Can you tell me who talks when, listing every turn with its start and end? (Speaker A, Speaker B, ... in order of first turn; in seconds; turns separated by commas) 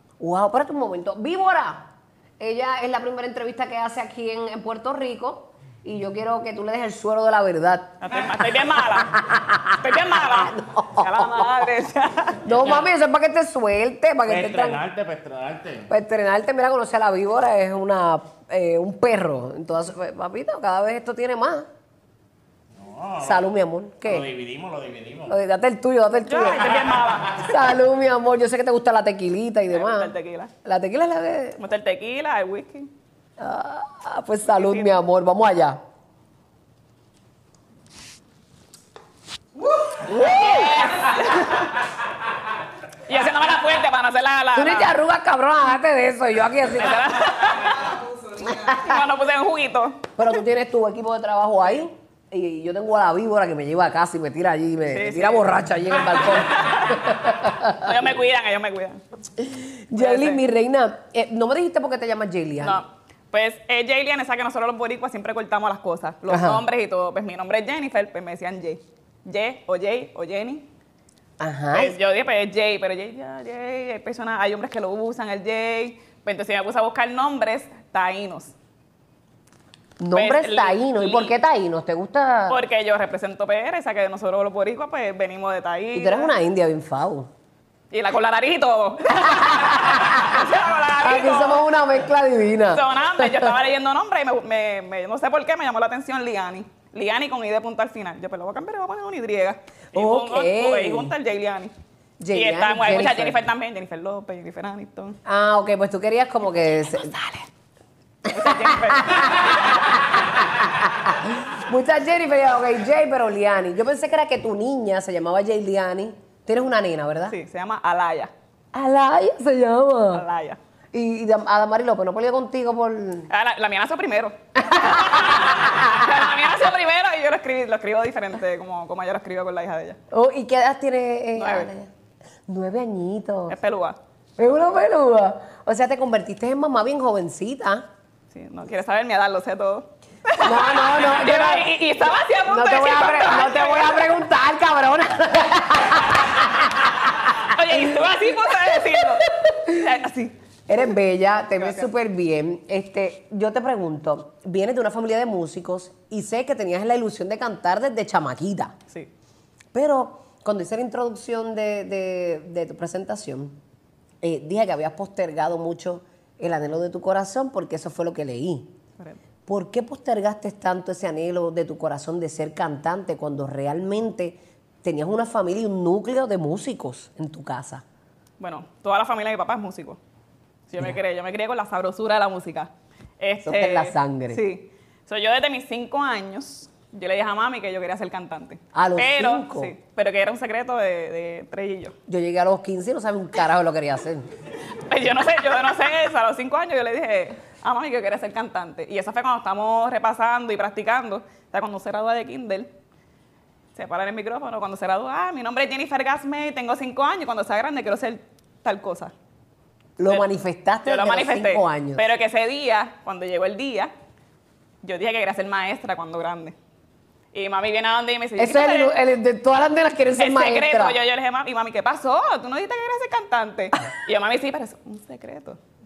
Speaker A: 0.2-11.7, Speaker B: 8.0-9.2, Speaker B: 9.8-12.4, Speaker A: 12.4-14.8, Speaker C: 14.2-15.9, Speaker A: 15.9-21.6, Speaker C: 22.7-23.4, Speaker A: 23.2-24.3, Speaker C: 24.0-25.3, Speaker A: 25.3-30.1, Speaker B: 26.2-27.7, Speaker B: 29.7-30.5, Speaker A: 30.6-31.6, Speaker B: 31.6-32.9, Speaker A: 33.4-35.8, Speaker B: 34.5-34.9, Speaker B: 39.7-41.9, Speaker A: 39.9-41.3, Speaker B: 43.1-45.0, Speaker A: 44.5-47.1, Speaker B: 46.7-50.1, Speaker A: 48.4-48.8, Speaker A: 50.2-57.9, Speaker B: 54.9-55.5, Speaker B: 56.1-57.1, Speaker B: 57.8-59.0, Speaker A: 59.4-62.8, Speaker B: 59.9-60.4, Speaker B: 62.6-70.7, Speaker A: 66.3-66.6, Speaker A: 71.4-72.0, Speaker B: 71.7-78.5, Speaker A: 80.0-82.6, Speaker B: 80.1-81.3, Speaker B: 82.5-86.3, Speaker A: 85.9-87.3, Speaker B: 87.9-91.6, Speaker A: 89.2-90.4, Speaker A: 91.0-93.5, Speaker B: 92.7-101.7, Speaker A: 99.9-101.1, Speaker A: 102.2-103.4, Speaker B: 102.3-105.2, Speaker A: 105.2-107.2, Speaker B: 108.2-110.0, Speaker A: 108.3-117.3, Speaker B: 117.3-118.3, Speaker A: 118.7-120.2, Speaker B: 120.1-120.6, Speaker A: 120.9-123.3, Speaker B: 123.3-130.0, Speaker A: 124.6-126.3, Speaker A: 130.1-131.9, Speaker B: 131.4-131.7, Speaker A: 132.5-133.6, Speaker B: 133.5-134.0, Speaker A: 134.4-137.8, Speaker B: 138.3-144.0, Speaker A: 140.4-141.7, Speaker A: 142.5-148.1, Speaker B: 147.4-150.3, Speaker A: 148.7-149.8, Speaker A: 150.7-158.7, Speaker B: 151.6-151.8, Speaker A: 159.7-163.6, Speaker A: 164.2-168.7, Speaker A: 169.5-177.8, Speaker B: 178.4-180.0, Speaker B: 180.7-191.9, Speaker A: 183.4-184.4, Speaker A: 188.7-189.7, Speaker A: 192.1-194.3, Speaker B: 194.7-202.7, Speaker B: 203.7-209.1, Speaker A: 210.0-212.1, Speaker B: 210.8-213.9, Speaker B: 214.8-216.5, Speaker B: 217.3-218.9, Speaker A: 218.3-221.0, Speaker B: 220.2-225.6